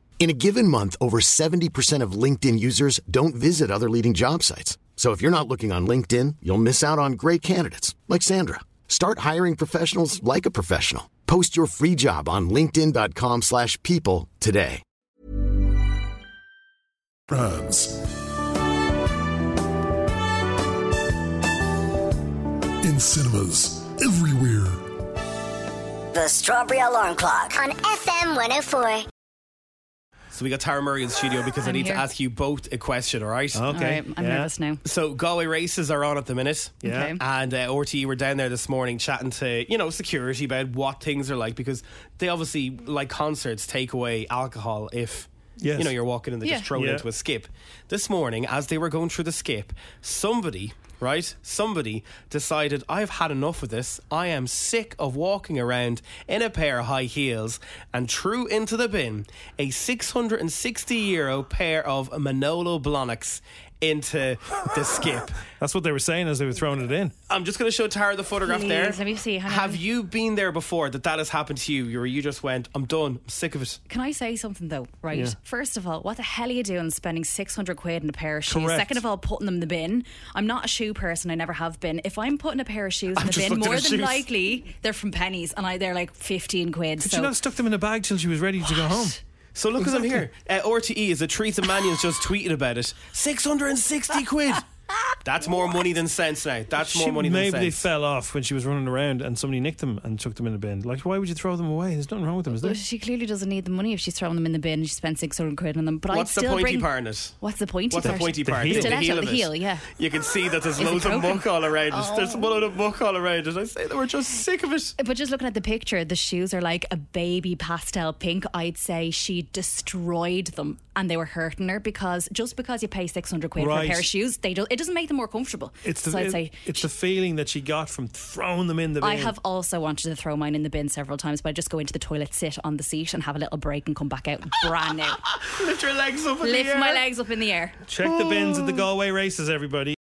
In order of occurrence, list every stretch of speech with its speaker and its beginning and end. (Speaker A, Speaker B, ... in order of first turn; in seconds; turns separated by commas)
Speaker A: 0.2-14.8, Speaker B: 17.3-18.1, Speaker B: 22.8-24.9, Speaker C: 26.1-29.1, Speaker D: 30.3-33.7, Speaker E: 31.6-32.1, Speaker F: 33.5-34.5, Speaker E: 33.7-34.8, Speaker D: 34.8-65.4, Speaker F: 36.8-37.1, Speaker E: 36.8-37.2, Speaker F: 45.6-45.9, Speaker F: 46.7-47.0, Speaker F: 65.6-67.1, Speaker D: 67.3-73.8, Speaker E: 68.4-69.8, Speaker E: 73.9-87.3, Speaker F: 75.1-75.4, Speaker F: 78.5-79.0, Speaker D: 83.1-84.3, Speaker F: 87.0-89.2, Speaker D: 89.5-94.7, Speaker F: 89.8-90.3, Speaker D: 95.2-97.8, Speaker F: 96.8-102.8, Speaker E: 102.5-106.9, Speaker D: 106.1-107.3, Speaker E: 107.4-109.9, Speaker D: 107.9-114.9, Speaker F: 108.0-109.0, Speaker E: 110.8-112.7, Speaker E: 115.0-126.8, Speaker F: 123.6-124.1, Speaker F: 125.8-129.3, Speaker E: 129.0-135.2, Speaker D: 135.3-137.1, Speaker E: 136.4-137.8, Speaker F: 137.9-140.0